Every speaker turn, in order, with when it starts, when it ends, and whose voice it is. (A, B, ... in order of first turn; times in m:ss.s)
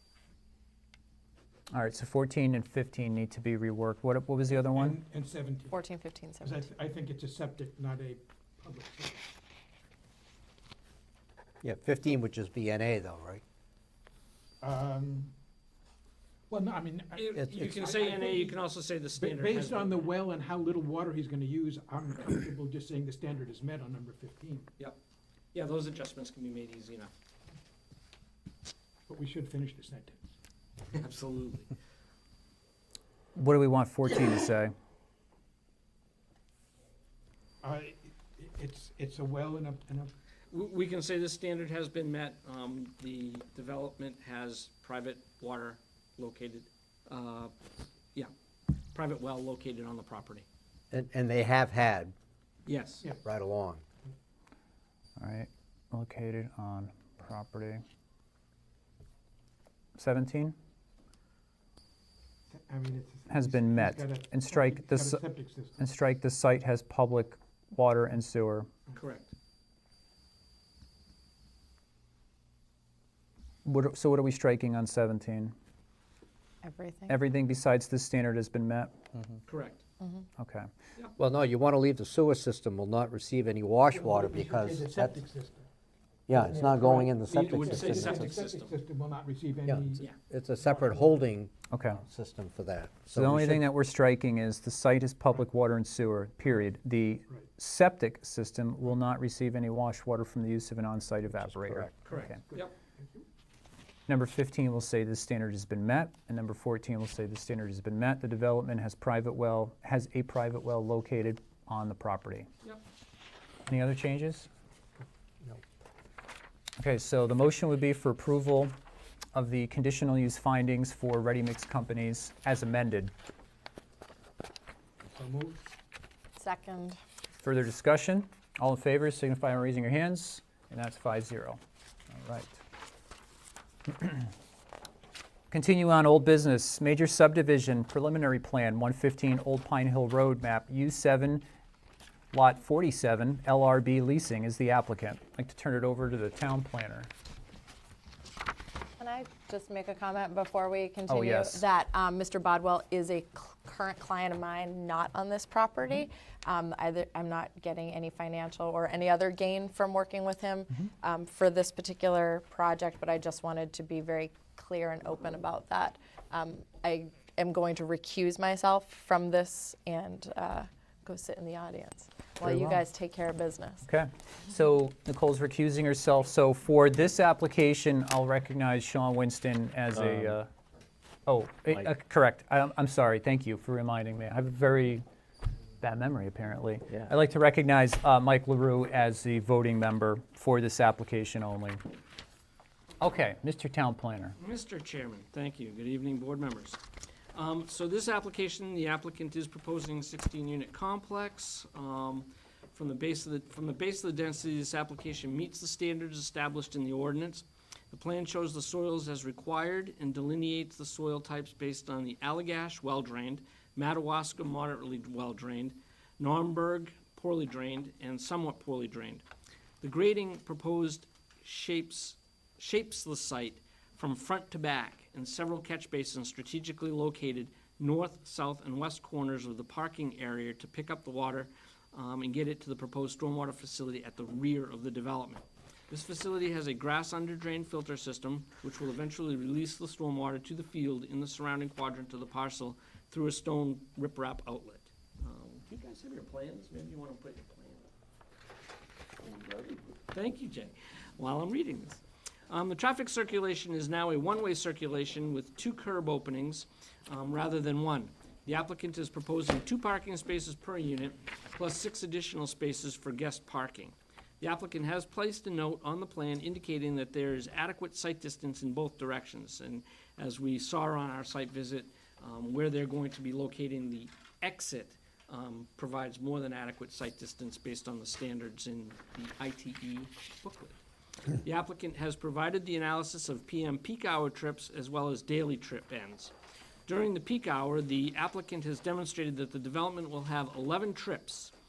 0:01.7-0:05.0 A
0:04.7-0:05.8 B
0:05.7-0:06.7 C
0:06.4-0:09.3 B
0:11.6-0:13.4 D
0:14.6-0:15.3 B
0:16.5-0:18.6 B
0:17.1-0:20.1 E
0:17.4-0:17.8 D
0:19.2-0:24.7 B
0:25.5-0:27.1 E
0:29.1-0:30.3 B
0:30.9-0:31.7 E
0:33.3-0:34.7 A
0:37.6-0:40.1 B
0:40.5-0:47.5 E
0:48.9-0:50.4 E
0:50.9-0:52.1 D
0:52.6-0:53.1 E
0:53.2-0:53.8 D
0:55.2-0:57.8 A
1:00.0-1:00.5 A
1:02.5-1:05.8 B
1:03.3-1:05.2 A
1:05.8-1:08.7 A
1:09.0-1:09.3 E
1:13.6-1:15.5 A
1:16.6-1:17.2 C
1:17.1-1:18.9 A
1:19.4-1:19.8 E
1:20.0-1:20.3 C
1:20.4-1:20.7 A
1:21.2-1:25.2 D
1:23.9-1:25.7 B
1:26.3-1:28.4 D
1:26.3-1:30.1 B
1:27.4-1:28.7 E
1:29.7-1:33.6 D
1:30.6-1:31.3 B
1:31.7-1:32.0 A
1:33.1-1:42.4 A
1:41.4-1:41.9 D
1:42.0-1:42.7 E
1:42.2-1:43.2 B
1:44.1-1:52.5 A
1:53.7-1:54.5 A
1:56.8-1:58.7 A
1:59.3-2:03.1 A
2:05.0-2:05.6 B
2:06.4-2:07.0 C
2:07.4-2:11.6 A
2:12.1-2:12.6 A
2:13.9-2:14.2 A
2:15.5-2:21.4 A
2:22.3-2:27.1 A
2:29.0-2:53.8 C
2:31.1-2:31.6 A
2:52.4-2:52.8 A
2:53.8-3:00.5 A
3:00.0-3:00.3 D
3:01.3-3:05.0 A
3:05.8-3:11.8 A
3:13.0-3:14.4 A
3:14.4-3:16.8 E
3:17.3-3:39.2 E
3:39.8-4:07.8 E
4:09.2-4:40.8 E
4:41.4-4:46.3 E
4:46.8-4:51.5 E